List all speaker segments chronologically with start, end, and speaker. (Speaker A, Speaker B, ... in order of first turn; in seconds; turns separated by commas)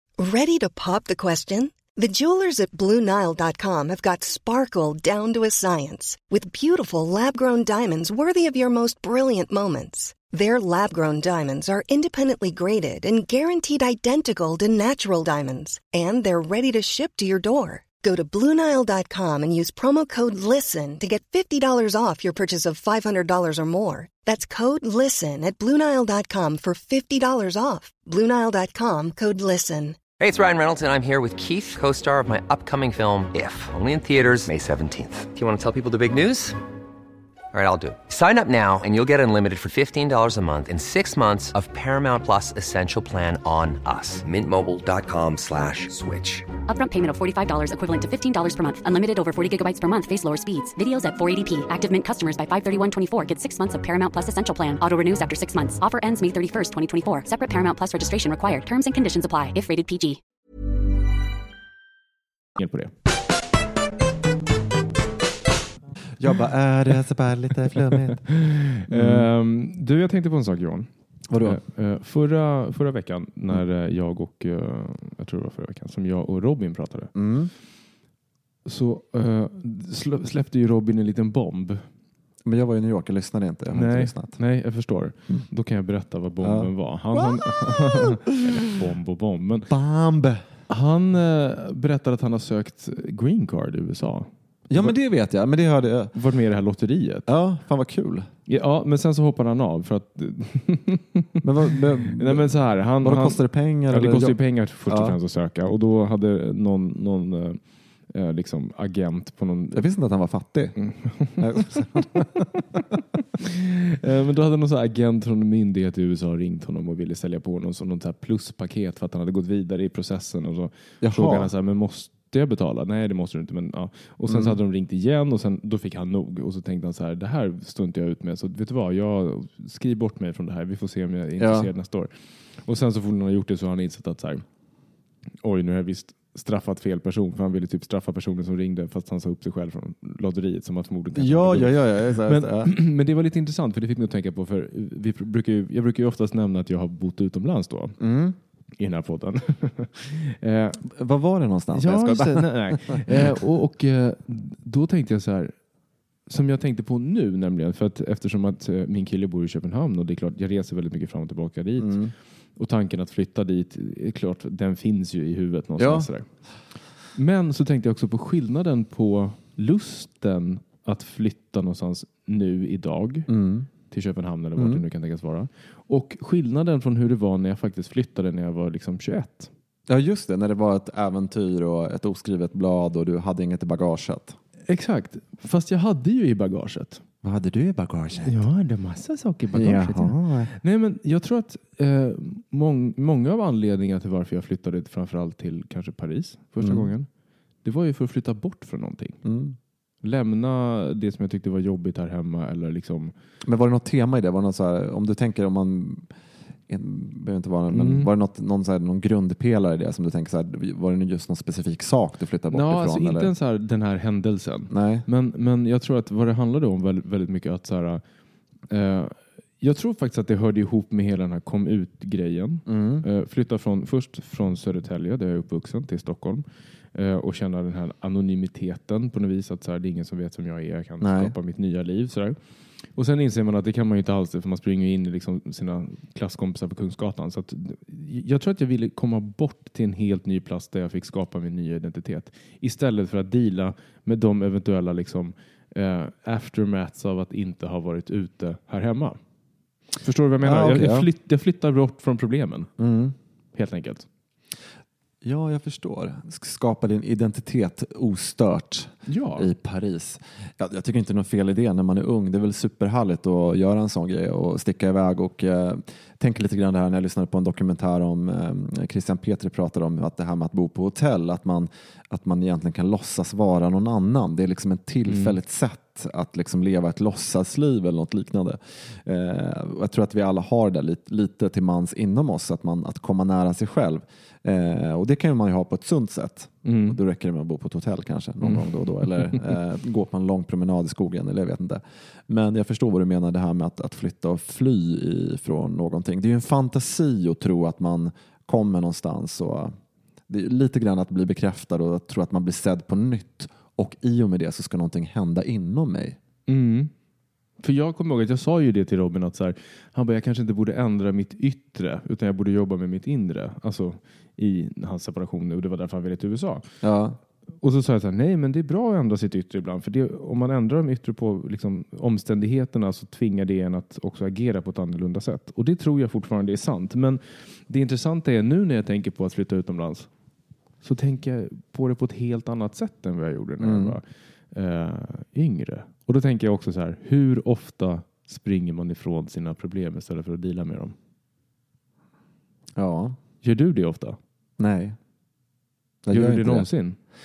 Speaker A: 0.2-30.0, Speaker B: 30.2-36.6, Speaker B: 37.5-46.6, Speaker C: 46.6-60.2, Speaker D: 62.6-62.9, Speaker E: 66.2-68.3, Speaker D: 67.8-70.9, Speaker E: 68.9-69.3, Speaker E: 71.3-71.6, Speaker D: 71.4-77.1, Speaker E: 77.2-77.5, Speaker D: 78.7-81.9, Speaker E: 82.5-84.4, Speaker D: 83.7-89.7, Speaker E: 86.4-88.5, Speaker E: 89.7-90.5, Speaker D: 90.7-95.0, Speaker E: 94.7-96.2, Speaker D: 96.1-97.3, Speaker E: 97.3-98.3, Speaker D: 98.5-109.8, Speaker E: 101.4-105.2, Speaker E: 109.7-110.8, Speaker D: 110.8-112.1, Speaker E: 111.4-112.5, Speaker D: 113.4-132.1, Speaker E: 121.0-121.5, Speaker E: 124.3-124.6, Speaker E: 131.4-131.7, Speaker D: 132.6-134.4, Speaker D: 135.4-148.0, Speaker E: 141.2-142.7, Speaker E: 148.0-148.4, Speaker D: 148.8-150.8, Speaker E: 150.8-153.4, Speaker D: 151.7-155.5, Speaker D: 156.3-162.0, Speaker E: 161.8-162.1, Speaker D: 162.6-166.3, Speaker E: 165.8-166.1, Speaker D: 167.2-173.3, Speaker E: 173.3-173.7, Speaker D: 173.9-179.5, Speaker E: 174.6-174.8, Speaker E: 179.9-184.4, Speaker D: 184.7-187.0, Speaker E: 187.2-188.4, Speaker D: 188.2-197.1, Speaker E: 189.5-190.5, Speaker E: 196.6-196.9, Speaker D: 197.6-199.2, Speaker E: 199.2-199.6, Speaker D: 200.0-203.1, Speaker E: 203.4-206.1, Speaker E: 206.7-213.3, Speaker D: 207.7-208.1, Speaker D: 212.5-218.0, Speaker E: 214.7-215.1, Speaker D: 218.7-232.4, Speaker E: 222.7-223.1, Speaker E: 231.0-231.3, Speaker D: 232.9-249.2, Speaker D: 250.0-252.7, Speaker E: 250.4-251.1, Speaker E: 252.8-253.2, Speaker D: 253.6-254.1, Speaker E: 255.2-299.8, Speaker D: 259.1-259.5, Speaker D: 275.1-275.4, Speaker D: 286.6-287.0, Speaker D: 288.4-289.4, Speaker E: 300.3-306.2, Speaker D: 306.5-306.9, Speaker D: 307.6-316.7, Speaker E: 316.8-317.2, Speaker D: 317.6-330.1, Speaker D: 330.8-340.9, Speaker E: 333.6-334.0, Speaker E: 342.8-343.2, Speaker D: 343.4-344.2, Speaker E: 344.6-345.0, Speaker E: 346.1-346.7, Speaker D: 346.1-347.0